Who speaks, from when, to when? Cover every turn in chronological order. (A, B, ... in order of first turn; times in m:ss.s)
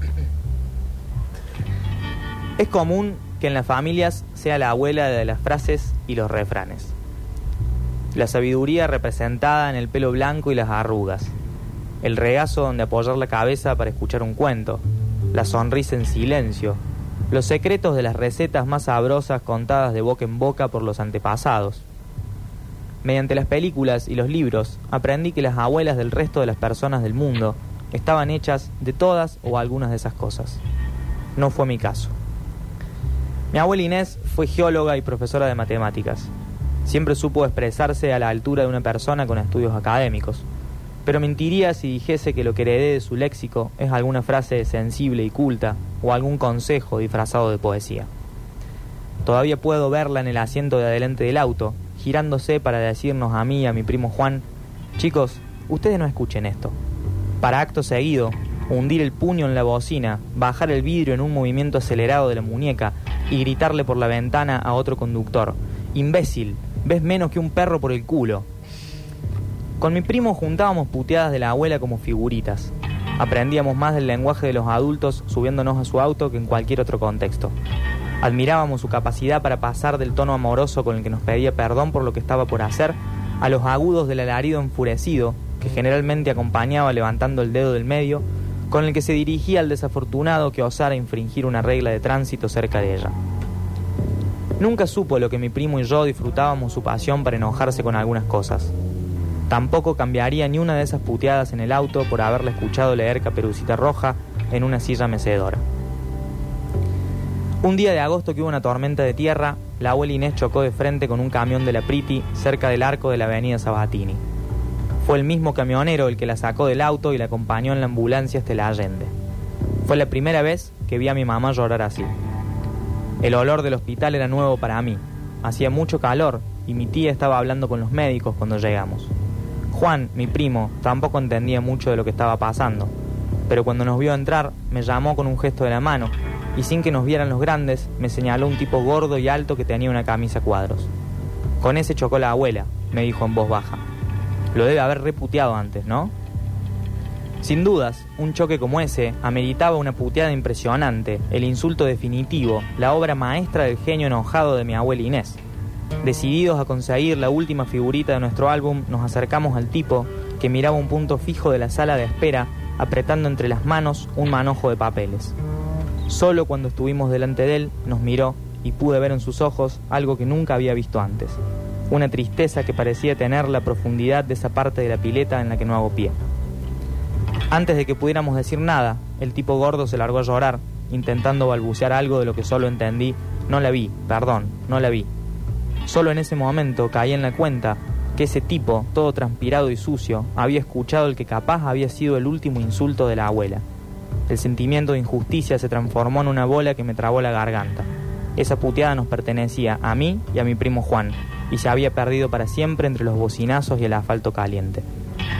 0:02.6-0:06.9 A
0:08.1-0:11.3 A
0:12.0-0:21.8 A
0:23.0-0:30.6 A
0:31.4-0:32.1 A
0:33.5-0:36.3 A
0:36.8-0:40.4 A
0:41.0-0:48.1 A
0:49.2-0:54.5 A
0:55.0-0:56.8 A
0:57.4-1:08.5 A
1:09.8-1:17.5 A
1:18.2-1:33.2 A
1:34.6-1:38.7 A
1:39.5-1:45.6 A
1:47.6-1:54.2 A
1:55.0-1:59.1 A
1:59.8-2:02.1 A
2:03.2-2:09.1 A
2:09.7-2:12.9 A
2:13.5-2:20.9 A
2:21.6-2:23.8 A
2:24.5-2:26.1 A
2:27.4-2:35.4 A
2:36.0-2:45.4 A
2:46.1-2:56.2 A
2:57.5-3:05.1 A
3:05.8-3:13.6 A
3:14.3-3:24.8 A